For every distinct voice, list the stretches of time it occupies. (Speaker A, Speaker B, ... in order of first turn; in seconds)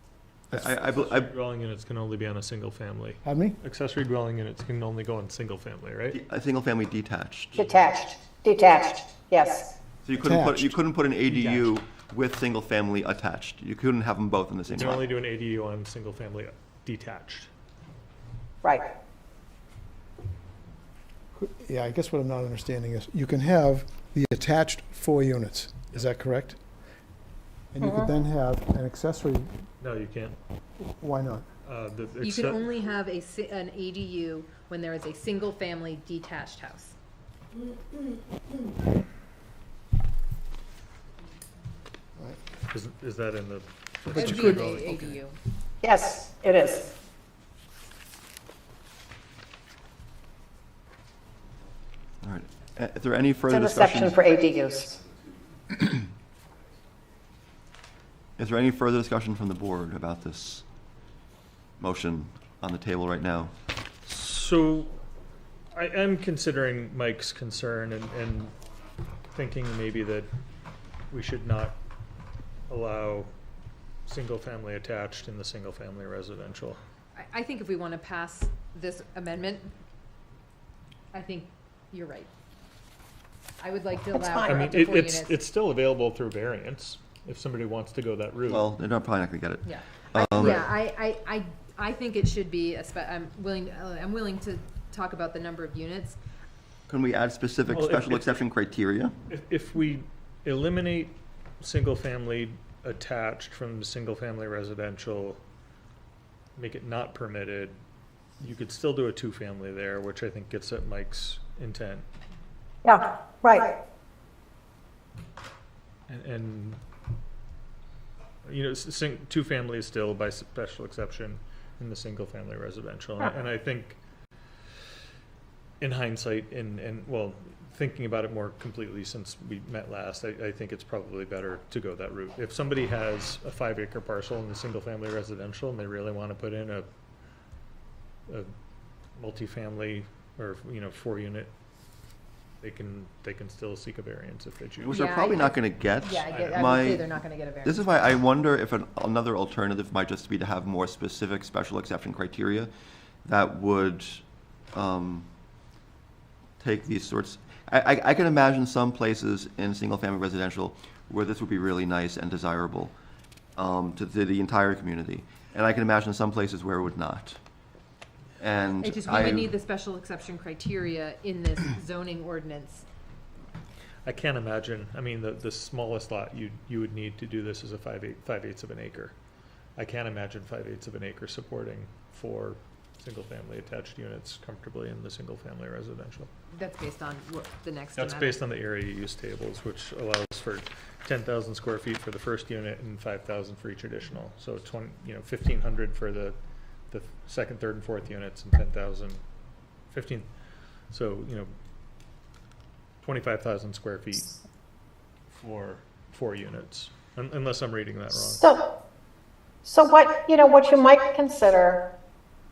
Speaker A: 0.5-1.3, 6.1-7.7, 10.0-15.0, 52.2-54.2, 58.4-60.6, 61.8-63.5, 88.5-90.7, 96.9-99.2, 144.8-152.7, 153.2-155.3, 156.6-162.9, 163.6-167.4, 168.4-169.5
Speaker B: 0.9-6.2, 11.3-11.7, 14.7-17.5, 29.8-30.4, 31.6-32.7, 42.7-45.2, 64.0-64.9, 65.7-68.5, 69.3-70.3, 71.1-71.8, 72.7-73.3, 74.1-76.8, 84.4-88.7, 90.3-90.7, 97.7-98.4, 99.3-105.4, 106.6-107.8, 108.4-112.0, 116.1-116.8, 118.5-124.0, 125.8-136.9, 139.2-141.5, 142.6-145.0, 146.3-146.6, 174.1-179.1, 179.8-186.3, 188.0-196.4, 196.9-199.2, 199.9-200.3, 200.9-201.5, 203.0-204.3, 205.4-208.4
Speaker C: 3.2-3.6, 10.2-10.8, 21.4-26.6, 27.7-29.5, 30.9-31.5
Speaker D: 7.6-9.8, 18.6-18.9, 27.8-28.1, 45.8-46.9, 53.5-54.9, 84.1-84.7, 112.8-113.8, 208.3-208.7, 209.6-211.9
Speaker E: 32.2-36.9, 44.1-45.4, 77.2-79.7, 81.1-82.3, 83.6-85.4, 89.7-96.2, 144.9-147.8, 168.8-172.8, 186.5-188.4